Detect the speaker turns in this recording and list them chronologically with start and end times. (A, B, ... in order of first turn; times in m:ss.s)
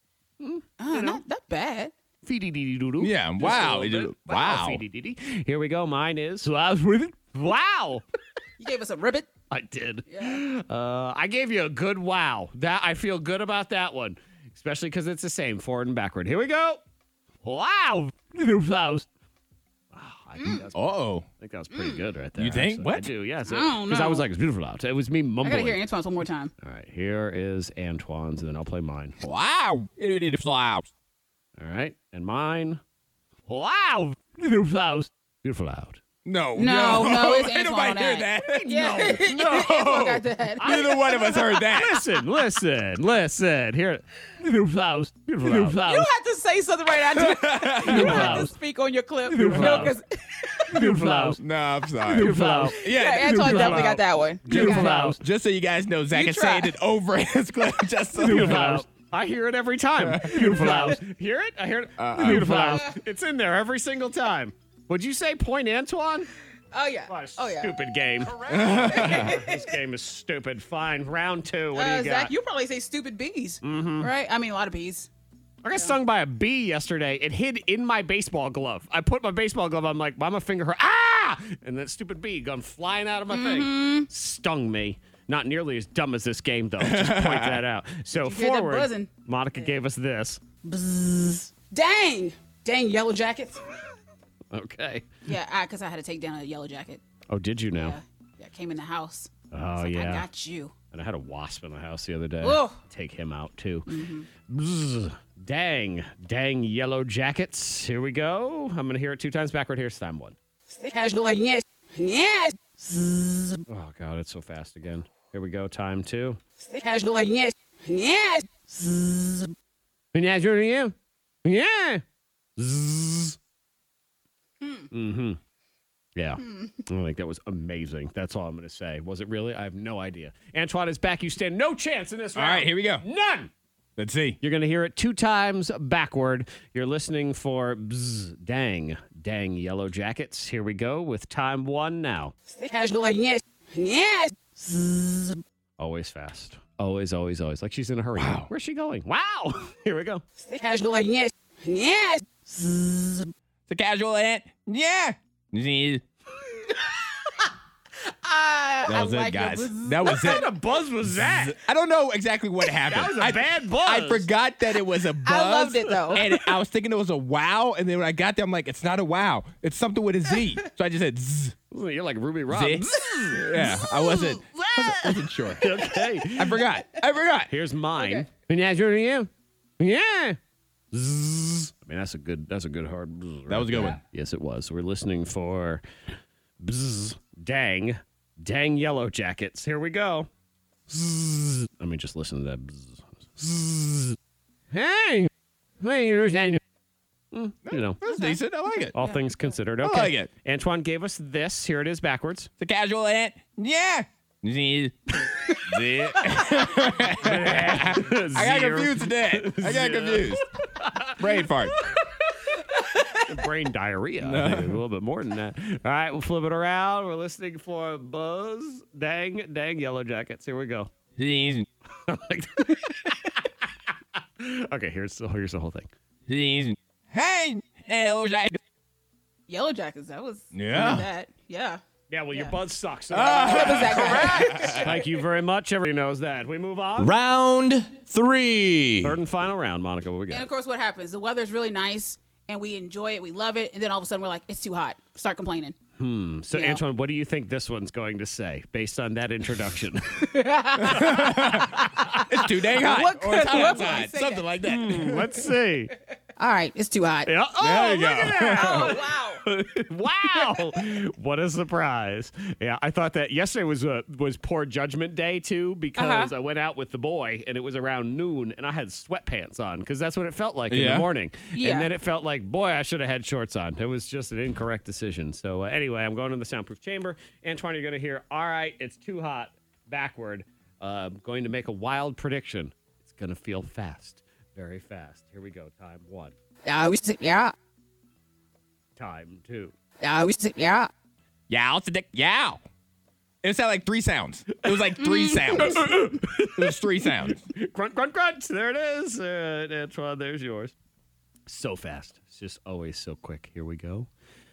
0:00.4-0:01.2 A
0:00.8-0:01.9 B
0:02.2-0:08.0 A
0:03.0-0:04.8 C
0:08.6-0:09.3 B
0:09.5-0:16.8 A
0:10.1-0:10.4 B
0:17.4-0:19.0 A
0:19.9-0:25.8 A
0:20.4-0:20.6 B
0:20.7-0:21.2 C
0:21.7-0:22.0 B
0:22.4-0:23.1 C
0:23.4-0:24.2 B
0:25.4-0:26.5 B
0:26.6-0:29.2 A
0:29.2-0:30.9 C
0:31.6-0:32.8 A
0:33.5-0:36.0 A
0:36.2-0:42.0 C
0:36.6-0:41.6 B
0:38.5-0:39.4 A
0:40.6-0:46.1 A
0:45.7-0:50.9 B
0:47.1-0:48.5 C
0:47.8-0:48.5 A
0:49.3-0:50.0 A
0:50.7-0:51.4 A
0:51.2-0:58.8 C
0:52.0-0:55.2 A
0:52.4-0:55.1 B
0:56.1-0:56.7 B
0:58.2-1:06.3 A
1:00.0-1:01.0 C
1:02.0-1:02.8 C
1:02.4-1:03.0 B
1:06.7-1:07.8 B
1:07.1-1:12.3 A
1:08.4-1:09.7 B
1:08.5-1:09.3 C
1:11.7-1:15.1 B
1:13.6-1:14.1 A
1:15.6-1:30.4 A
1:23.3-1:24.1 B
1:26.8-1:27.6 C
1:28.1-1:29.7 B
1:30.6-1:33.6 B
1:34.5-1:35.0 A
1:35.2-1:37.0 B
1:37.3-1:38.0 A
1:37.7-1:40.7 B
1:39.5-1:40.2 A
1:40.9-1:43.9 A
1:42.4-1:42.8 B
1:43.9-1:44.3 B
1:44.5-1:50.4 A
1:50.7-1:53.6 B
1:53.7-1:56.4 A
1:56.6-1:59.5 B
2:00.1-2:02.0 A
2:02.6-2:03.4 A
2:04.6-2:04.9 B
2:04.9-2:05.4 A
2:06.1-2:13.5 A
2:06.4-2:06.7 B
2:12.3-2:13.0 C
2:14.0-2:14.4 C
2:14.4-2:22.3 A
2:22.5-2:25.3 B
2:25.8-2:30.2 A
2:28.2-2:28.5 C
2:30.4-2:33.2 B
2:33.7-2:36.0 C
2:38.0-2:40.5 B
2:38.8-2:40.4 C
2:40.0-2:41.6 A
2:41.1-2:51.6 C
2:42.9-2:44.3 A
2:45.2-2:46.3 B
2:51.7-2:53.5 A
2:52.5-2:57.5 C
2:55.6-2:56.6 A
2:57.5-3:00.4 A
2:57.9-2:58.2 B
3:00.9-3:05.8 A
3:03.5-3:04.0 C
3:06.6-3:10.3 A
3:10.9-3:14.2 A
3:14.7-3:15.3 A
3:15.8-3:16.6 A
3:17.3-3:18.0 A
3:17.6-3:19.0 C
3:18.0-3:18.4 B
3:18.9-3:22.5 A
3:18.9-3:19.2 B
3:19.8-3:20.3 C
3:22.6-3:30.4 C
3:27.1-3:31.4 A
3:31.1-3:31.8 C
3:33.1-3:40.9 A
3:34.2-3:34.8 C
3:41.2-3:41.7 C
3:42.1-3:43.5 A
3:44.4-3:45.9 A
3:46.3-3:48.6 C
3:49.5-3:51.8 B
3:50.5-3:51.1 C
3:52.1-3:57.1 A
3:53.1-3:55.0 C
3:53.2-3:55.0 B
3:57.0-3:59.2 C
3:59.0-4:00.5 A
4:00.3-4:05.8 B
4:06.0-4:10.3 A
4:06.5-4:06.8 B
4:10.2-4:14.6 B
4:10.8-4:15.3 C
4:14.6-4:15.9 A
4:16.4-4:17.3 B
4:17.2-4:46.3 A
4:17.6-4:19.0 C
4:18.5-4:19.4 B
4:26.0-4:26.3 B
4:30.7-4:31.1 C
4:31.5-4:31.9 B
4:46.6-4:47.5 B
4:49.0-4:49.7 A
4:50.0-4:50.9 B
4:51.5-4:52.6 C
4:53.4-4:57.4 C
4:55.0-4:55.8 B
4:55.6-5:00.7 A
5:01.5-5:04.1 A